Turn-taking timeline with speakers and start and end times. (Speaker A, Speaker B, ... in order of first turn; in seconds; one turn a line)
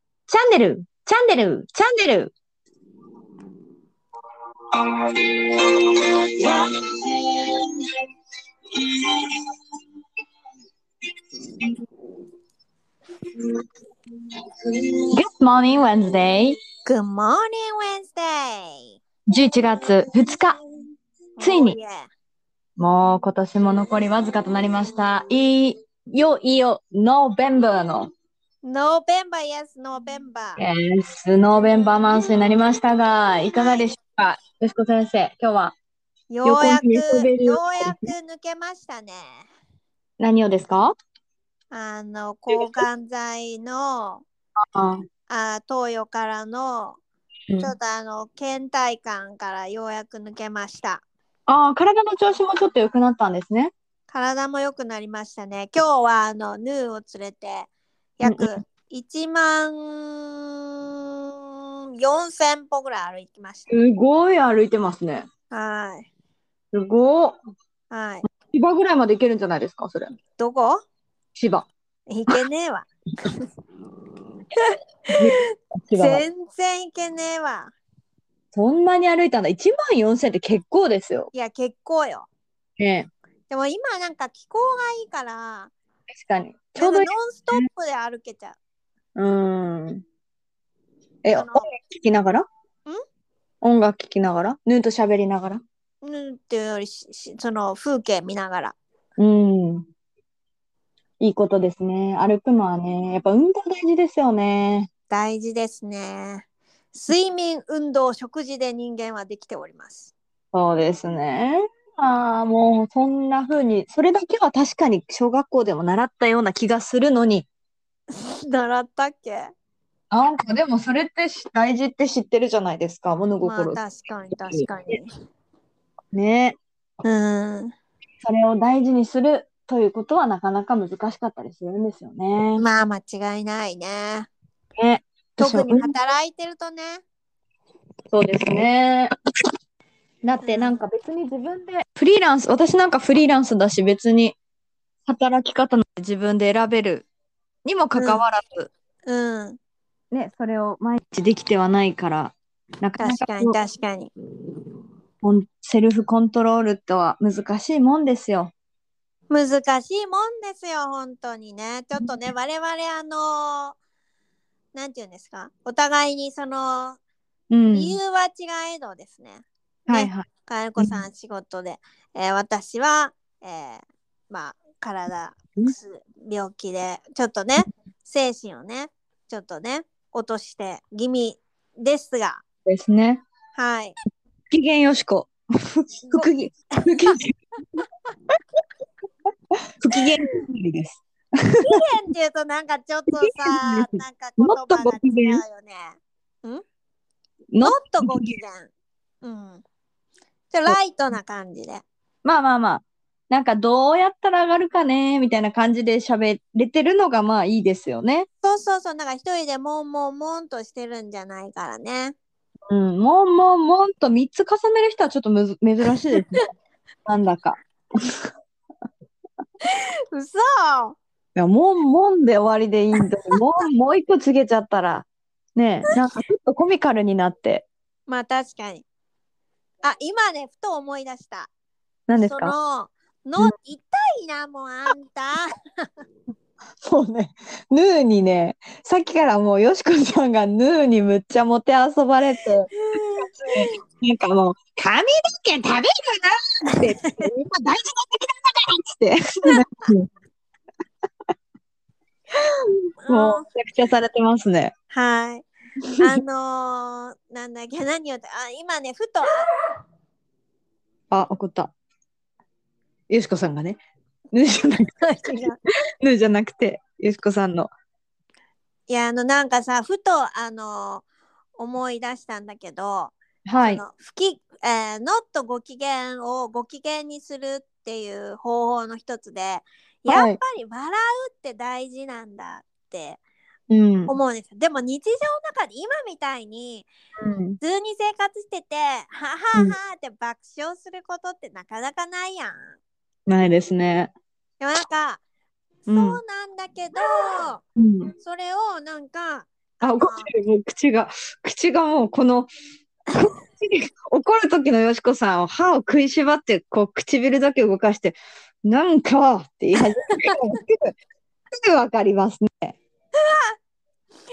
Speaker A: 0.3-2.3
Speaker A: 4.8-7.8
Speaker A: 8.8-9.4
Speaker A: 15.1-16.6
Speaker B: 16.9-19.0
Speaker A: 19.3-20.6
Speaker B: 21.4-22.1
Speaker A: 21.4-21.8
Speaker A: 22.8-28.1
Speaker B: 28.6-30.6
Speaker A: 30.6-35.8
Speaker B: 36.3-39.5
Speaker A: 36.4-38.1
Speaker A: 40.2-41.0
Speaker B: 41.7-44.2
Speaker A: 42.5-42.8
Speaker A: 44.7-45.0
Speaker B: 45.3-47.0
Speaker B: 47.6-51.0
Speaker A: 51.5-53.7
Speaker B: 54.1-60.5
Speaker A: 58.2-58.5
Speaker B: 62.0-63.7
Speaker A: 63.7-65.3
Speaker B: 65.5-66.1
Speaker A: 66.7-67.4
Speaker B: 67.9-68.2
Speaker A: 68.3-70.1
Speaker B: 70.4-70.8
Speaker A: 71.4-71.7
Speaker B: 72.1-72.9
Speaker B: 75.1-75.4
Speaker A: 75.1-76.2
Speaker B: 76.0-77.7
Speaker A: 78.5-81.3
Speaker B: 81.3-82.3
Speaker A: 82.8-83.1
Speaker B: 83.5-85.7
Speaker A: 86.1-87.6
Speaker B: 86.8-88.6
Speaker A: 89.2-90.0
Speaker A: 91.2-92.4
Speaker B: 91.3-91.7
Speaker A: 93.6-95.6
Speaker B: 96.0-98.8
Speaker A: 99.2-99.9
Speaker A: 101.2-104.9
Speaker B: 105.1-110.1
Speaker A: 110.5-117.5
Speaker B: 118.1-119.5
Speaker A: 120.1-123.8
Speaker B: 123.4-125.1
Speaker A: 124.5-125.0
Speaker A: 126.1-126.6
Speaker B: 127.0-127.7
Speaker A: 128.2-132.6
Speaker B: 132.6-134.3
Speaker A: 134.8-135.9
Speaker B: 135.4-137.0
Speaker A: 138.1-139.1
Speaker A: 140.2-144.4
Speaker B: 140.4-140.8
Speaker A: 145.1-147.1
Speaker A: 147.7-148.7
Speaker B: 148.0-148.2
Speaker B: 149.1-149.6
Speaker A: 150.1-153.6
Speaker B: 153.0-154.1
Speaker A: 155.2-158.5
Speaker B: 159.3-163.8
Speaker B: 164.7-167.0
Speaker A: 167.5-168.0
Speaker B: 167.7-182.4
Speaker A: 169.9-170.3
Speaker A: 182.7-183.2
Speaker B: 183.6-184.0
Speaker A: 184.5-187.4
Speaker B: 186.1-187.2
Speaker A: 189.8-191.8
Speaker B: 191.6-196.6
Speaker A: 193.2-195.4
Speaker A: 197.5-198.3
Speaker B: 197.6-198.7
Speaker B: 199.2-199.6
Speaker B: 200.5-201.8
Speaker A: 202.2-208.3
Speaker B: 208.4-212.2
Speaker A: 212.7-216.4
Speaker A: 217.1-218.2
Speaker B: 219.6-221.0
Speaker A: 221.4-227.7
Speaker B: 228.1-228.9
Speaker B: 229.8-231.5
Speaker A: 232.1-232.6
Speaker B: 232.2-235.9
Speaker A: 236.8-250.1
Speaker B: 242.8-243.8
Speaker B: 246.7-247.3
Speaker A: 252.4-254.7
Speaker B: 253.0-253.5
Speaker B: 254.9-255.5
Speaker B: 256.0-259.5
Speaker A: 261.1-261.7
Speaker A: 263.1-263.8
Speaker A: 264.3-265.5
Speaker B: 265.0-265.6
Speaker A: 266.0-267.7
Speaker B: 268.9-271.1
Speaker B: 271.6-283.2
Speaker A: 273.5-273.8
Speaker A: 280.1-280.4
Speaker A: 283.7-284.1
Speaker B: 284.1-286.9
Speaker A: 287.2-287.6
Speaker B: 287.6-292.8
Speaker A: 293.3-294.1
Speaker B: 294.6-295.2
Speaker A: 295.9-296.2
Speaker B: 295.9-297.6
Speaker A: 297.8-298.1
Speaker B: 298.2-300.3
Speaker A: 299.8-302.5
Speaker A: 303.1-310.9
Speaker B: 310.1-310.6
Speaker A: 311.5-312.8
Speaker B: 313.2-313.6